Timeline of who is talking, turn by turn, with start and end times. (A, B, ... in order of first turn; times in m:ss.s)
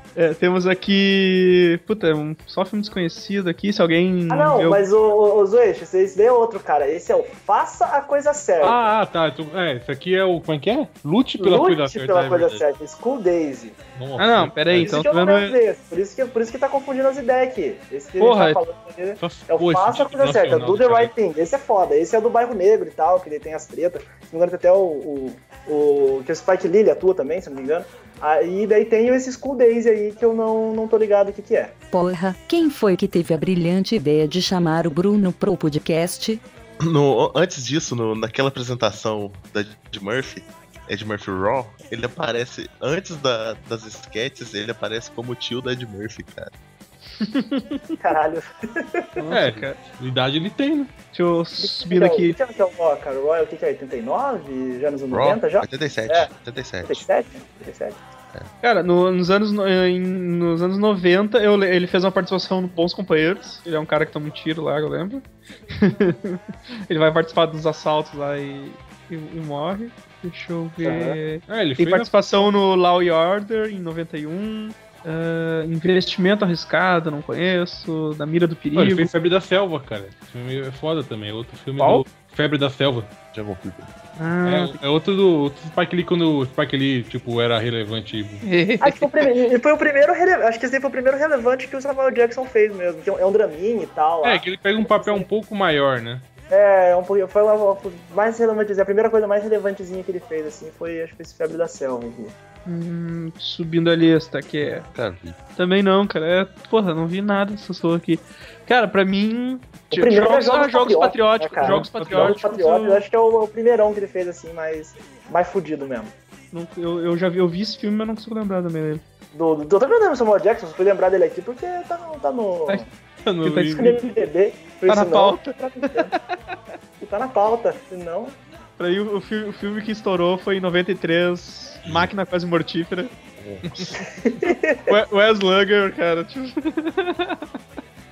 0:00.2-0:04.9 A
0:04.3-0:08.9 B
0:08.6-0:12.6 C
0:11.4-0:13.8 B
0:14.0-0:15.0 C
0:14.2-0:15.6 A
0:14.8-0:31.8 B
0:18.2-0:18.6 A
0:19.2-0:21.1 C
0:31.9-0:36.4 D
0:36.8-0:46.5 E
0:47.2-0:48.0 A
0:48.0-0:49.2 B
0:49.2-0:49.8 A
0:49.3-0:50.9 C
0:51.1-0:52.4 A
0:51.6-0:56.3 B
0:55.1-0:57.0 E
0:56.8-0:58.0 B
0:58.6-1:19.1 A
1:10.8-1:11.2 B
1:11.5-1:12.2 C
1:18.8-1:23.1 C
1:21.8-1:22.0 A
1:23.3-1:23.9 E
1:24.2-1:24.8 A
1:24.4-1:28.4 C
1:28.4-1:29.1 A
1:28.8-1:35.3 B
1:34.2-1:36.2 C
1:36.5-1:42.4 B
1:42.6-1:44.9 A
1:44.7-1:45.4 E
1:45.6-1:53.0 A
1:49.9-1:56.1 B
1:51.6-1:52.4 C
1:56.5-1:59.0 A
1:59.3-2:02.9 B
2:03.2-2:04.0 C
2:03.4-2:04.0 A
2:03.7-2:06.1 B
2:04.9-2:06.2 A
2:07.0-2:08.4 B
2:08.8-2:13.1 A
2:11.8-2:12.1 E
2:13.4-2:14.0 E
2:14.2-2:15.0 B
2:14.9-2:17.4 A